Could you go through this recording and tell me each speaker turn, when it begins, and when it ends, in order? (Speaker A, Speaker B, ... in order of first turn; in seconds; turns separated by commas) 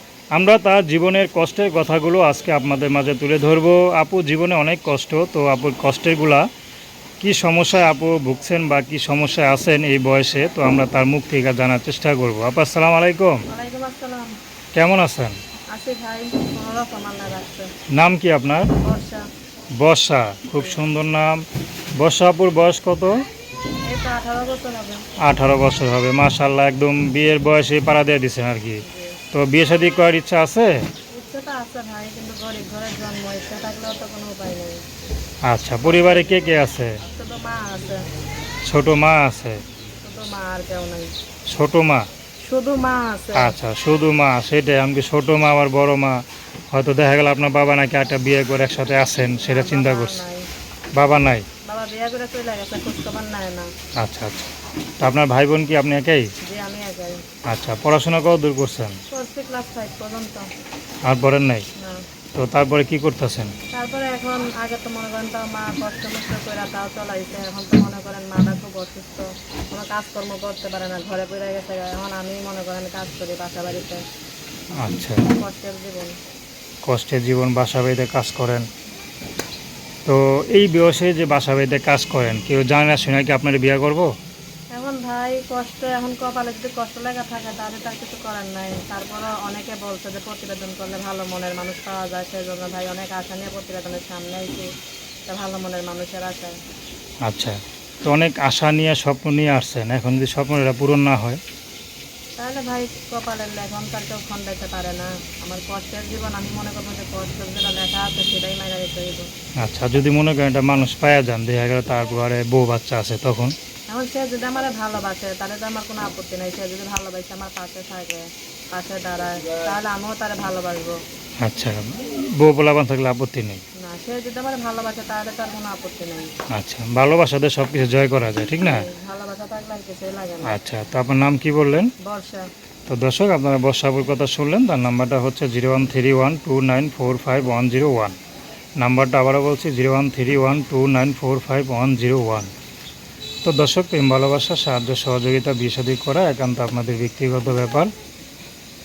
Speaker A: 0.3-6.5, Speaker A: 7.2-13.4, Speaker B: 13.5-14.3, Speaker A: 14.8-15.3, Speaker B: 15.7-17.7, Speaker A: 17.9-18.7, Speaker B: 18.8-19.2, Speaker A: 19.8-21.4, Speaker B: 20.5-20.8, Speaker A: 22.0-23.2, Speaker B: 23.9-25.0, Speaker A: 25.2-28.8, Speaker B: 28.9-29.2, Speaker A: 29.3-30.8, Speaker B: 31.1-34.8, Speaker A: 35.5-37.0, Speaker B: 35.8-38.0, Speaker A: 38.6-39.6, Speaker B: 40.0-41.1, Speaker A: 41.5-42.1, Speaker B: 42.4-43.5, Speaker A: 43.4-46.2, Speaker A: 46.7-50.2, Speaker B: 49.4-50.5, Speaker A: 50.9-51.5, Speaker B: 51.6-53.7, Speaker A: 54.0-54.5, Speaker A: 55.0-56.3, Speaker B: 56.4-57.2, Speaker A: 57.5-59.0, Speaker B: 59.1-60.5, Speaker A: 61.1-61.7, Speaker A: 62.4-63.5, Speaker B: 63.7-74.0, Speaker A: 74.8-75.3, Speaker B: 75.3-76.2, Speaker A: 76.8-78.7, Speaker A: 80.1-84.1, Speaker B: 84.7-94.7, Speaker B: 95.3-96.5, Speaker A: 97.3-101.4, Speaker B: 102.4-109.3, Speaker A: 109.6-113.5, Speaker B: 113.9-121.0, Speaker A: 121.4-123.6, Speaker B: 123.8-126.3, Speaker A: 126.5-128.8, Speaker B: 128.6-130.6, Speaker A: 130.4-131.9, Speaker B: 132.0-132.5, Speaker A: 132.9-138.2, Speaker A: 138.8-142.5, Speaker A: 143.4-147.9